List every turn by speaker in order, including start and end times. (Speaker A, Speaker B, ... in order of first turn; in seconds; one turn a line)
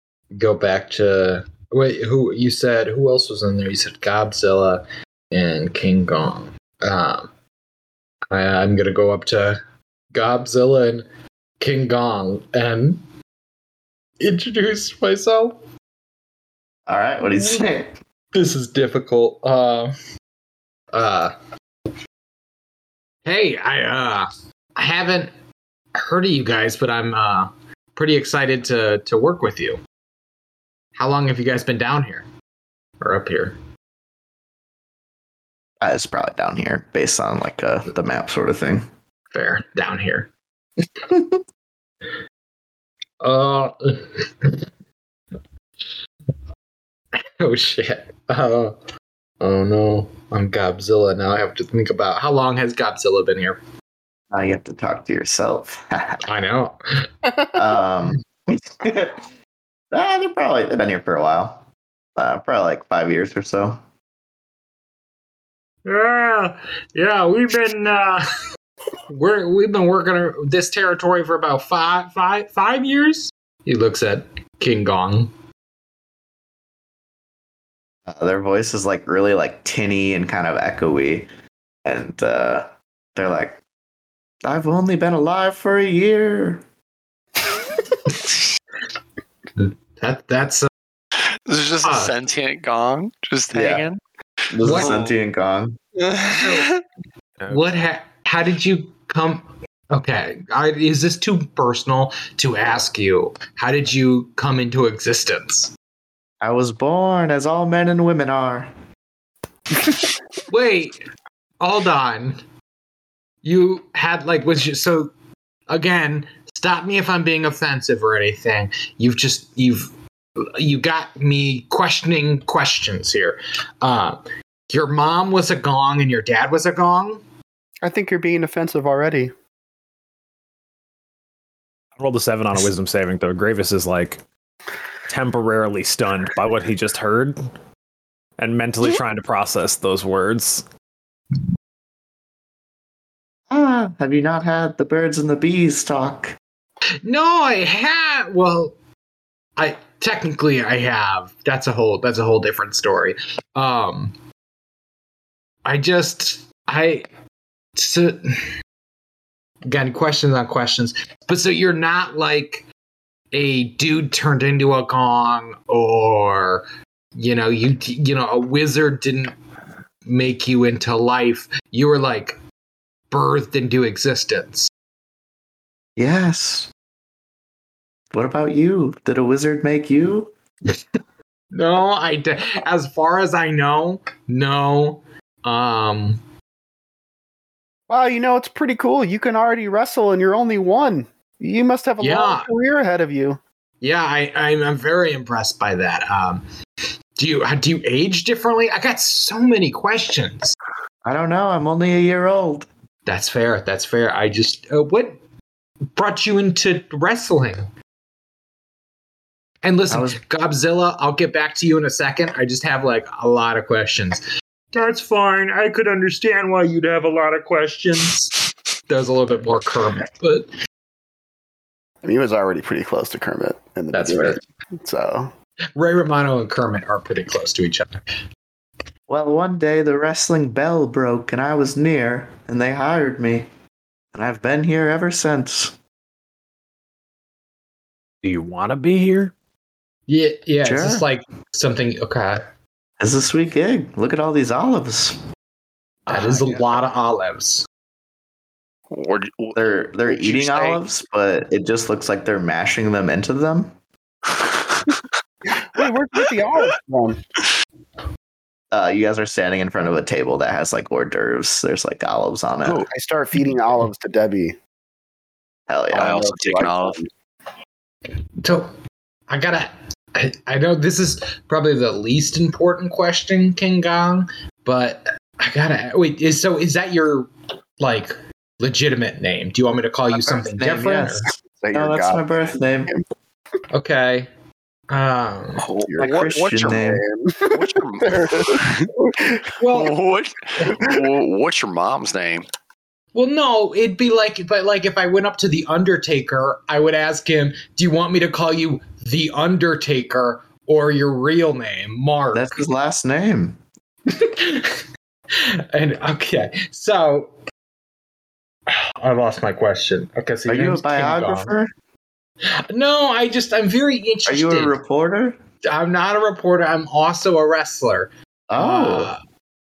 Speaker A: 0.3-7.3
Speaker A: 8.3-9.6
Speaker A: 10.1-11.1
Speaker A: 11.6-13.0
Speaker A: 14.2-15.6
Speaker B: 16.9-17.9
Speaker A: 17.3-17.6
Speaker A: 18.3-19.9
Speaker A: 20.9-21.3
Speaker A: 23.2-25.3
Speaker A: 25.9-29.8
Speaker A: 31.0-32.3
Speaker A: 33.0-33.6
Speaker B: 35.8-38.9
Speaker A: 39.3-40.3
Speaker B: 41.1-41.3
Speaker A: 43.2-44.7
Speaker A: 47.2-48.8
Speaker A: 49.4-53.6
Speaker B: 54.3-56.2
Speaker A: 56.3-57.1
Speaker B: 57.5-59.2
Speaker B: 59.9-63.8
Speaker A: 65.8-68.2
Speaker A: 69.1-75.3
Speaker B: 78.1-81.3
Speaker B: 81.8-83.6
Speaker B: 84.4-86.6
Speaker A: 89.6-90.7
Speaker C: 91.2-94.0
Speaker A: 91.8-92.2
Speaker B: 93.5-93.9
Speaker B: 94.5-95.8
Speaker C: 94.6-95.2
Speaker A: 94.6-95.0
Speaker C: 96.0-96.8
Speaker A: 96.3-96.7
Speaker A: 97.5-105.7
Speaker B: 106.4-108.7
Speaker A: 110.5-111.0
Speaker A: 111.6-112.4
Speaker A: 113.4-115.1
Speaker A: 115.7-127.2
Speaker D: 127.8-129.3
Speaker E: 132.0-134.2
Speaker E: 135.1-137.4
Speaker E: 138.4-140.7
Speaker B: 143.5-146.3
Speaker A: 147.0-148.8
Speaker A: 149.6-154.1
Speaker A: 155.7-157.1
Speaker A: 157.8-158.3
Speaker A: 159.7-162.7
Speaker A: 163.3-169.3
Speaker A: 170.1-172.4
Speaker A: 173.1-174.7
Speaker B: 176.0-176.7
Speaker B: 178.1-180.3
Speaker A: 181.5-186.2
Speaker D: 187.9-193.4
Speaker A: 192.0-192.5
Speaker A: 193.8-196.4
Speaker A: 197.2-200.6
Speaker B: 201.1-202.7
Speaker A: 203.1-205.2
Speaker A: 205.9-207.7
Speaker A: 209.6-218.3
Speaker B: 209.9-210.2
Speaker A: 218.9-220.5
Speaker D: 222.0-225.3
Speaker A: 223.9-224.4
Speaker A: 225.8-228.0
Speaker B: 229.1-233.5
Speaker B: 234.1-235.8
Speaker E: 238.2-239.3
Speaker A: 240.1-242.4
Speaker B: 240.6-241.1
Speaker B: 243.0-245.2
Speaker A: 246.1-247.7
Speaker C: 248.9-249.6
Speaker B: 249.5-253.8
Speaker C: 250.1-250.8
Speaker C: 254.4-254.9
Speaker D: 255.5-257.2
Speaker B: 258.7-262.9
Speaker D: 262.6-264.6
Speaker B: 265.7-266.4
Speaker D: 265.9-267.1
Speaker C: 265.9-267.0
Speaker A: 268.4-268.7
Speaker A: 269.3-281.3
Speaker B: 280.1-282.9
Speaker D: 281.6-283.0
Speaker A: 283.7-284.3
Speaker A: 284.9-285.6
Speaker C: 285.6-286.8
Speaker D: 285.8-289.5
Speaker B: 286.0-287.0
Speaker C: 287.5-288.9
Speaker A: 289.6-289.9
Speaker C: 289.6-292.5
Speaker A: 293.1-302.6
Speaker B: 302.3-303.6
Speaker A: 304.1-307.3
Speaker A: 308.7-311.5
Speaker B: 310.5-311.7
Speaker A: 312.7-314.8
Speaker B: 314.3-315.4
Speaker A: 315.7-319.2
Speaker B: 318.5-319.1